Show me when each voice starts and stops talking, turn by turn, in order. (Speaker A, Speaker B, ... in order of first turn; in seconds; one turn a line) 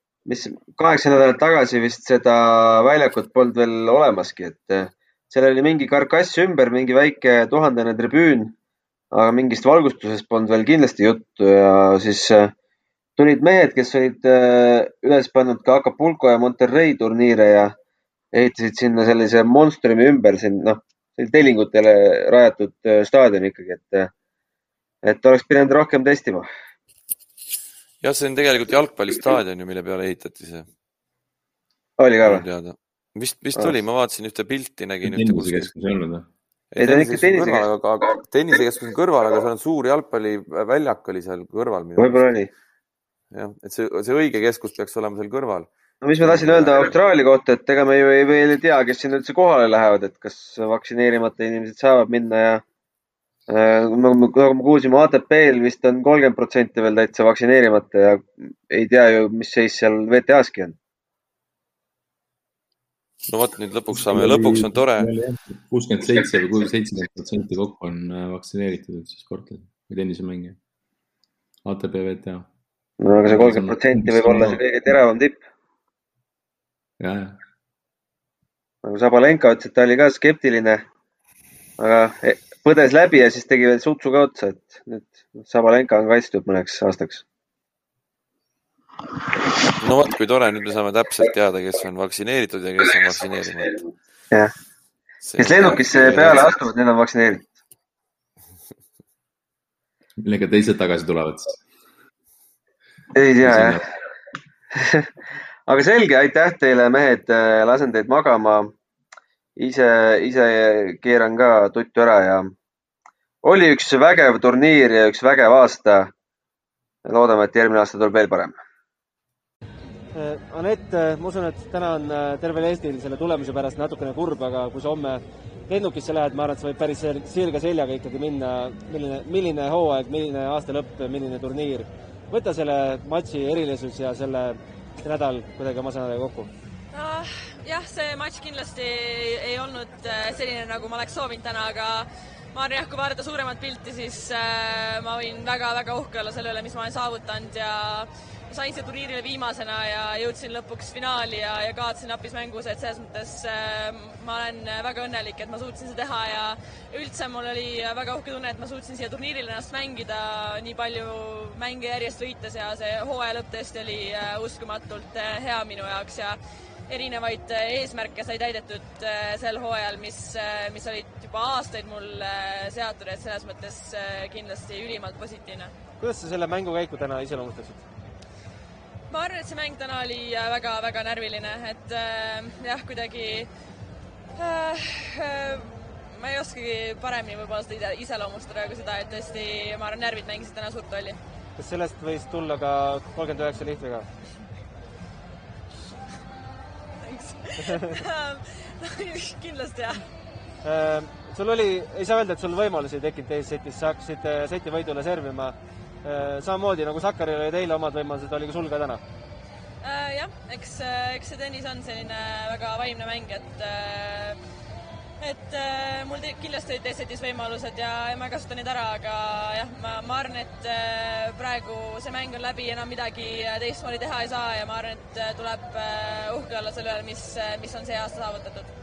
Speaker A: 0.3-8.5
Speaker A: 9.1-12.5
Speaker A: 13.2-17.8
Speaker A: 18.3-24.1
Speaker A: 25.0-26.5
Speaker B: 28.0-30.7
Speaker A: 32.0-32.5
Speaker B: 32.2-35.7
Speaker C: 35.0-36.3
Speaker B: 36.7-42.4
Speaker A: 36.8-37.6
Speaker A: 42.0-42.5
Speaker B: 43.3-46.9
Speaker A: 46.0-52.6
Speaker A: 53.5-60.8
Speaker B: 63.3-65.1
Speaker C: 63.9-70.6
Speaker C: 71.7-72.5
Speaker A: 73.0-75.4
Speaker C: 73.2-74.6
Speaker C: 77.0-77.4
Speaker A: 78.8-80.8
Speaker A: 81.8-87.2
Speaker B: 89.8-93.8
Speaker B: 95.2-96.6
Speaker A: 95.4-97.5
Speaker C: 100.2-101.6
Speaker A: 103.2-103.8
Speaker C: 103.4-103.8
Speaker A: 104.7-105.1
Speaker A: 105.7-108.7
Speaker A: 109.6-112.5
Speaker A: 113.4-116.1
Speaker A: 117.1-118.6
Speaker D: 120.1-136.5
Speaker E: 136.9-166.4
Speaker E: 166.9-175.7
Speaker D: 176.0-177.9
Speaker E: 179.1-183.5
Speaker E: 184.4-191.2
Speaker D: 191.6-194.1
Speaker E: 197.0-200.0
Speaker D: 197.7-198.0
Speaker D: 200.6-209.0
Speaker E: 209.8-214.4
Speaker E: 215.2-228.7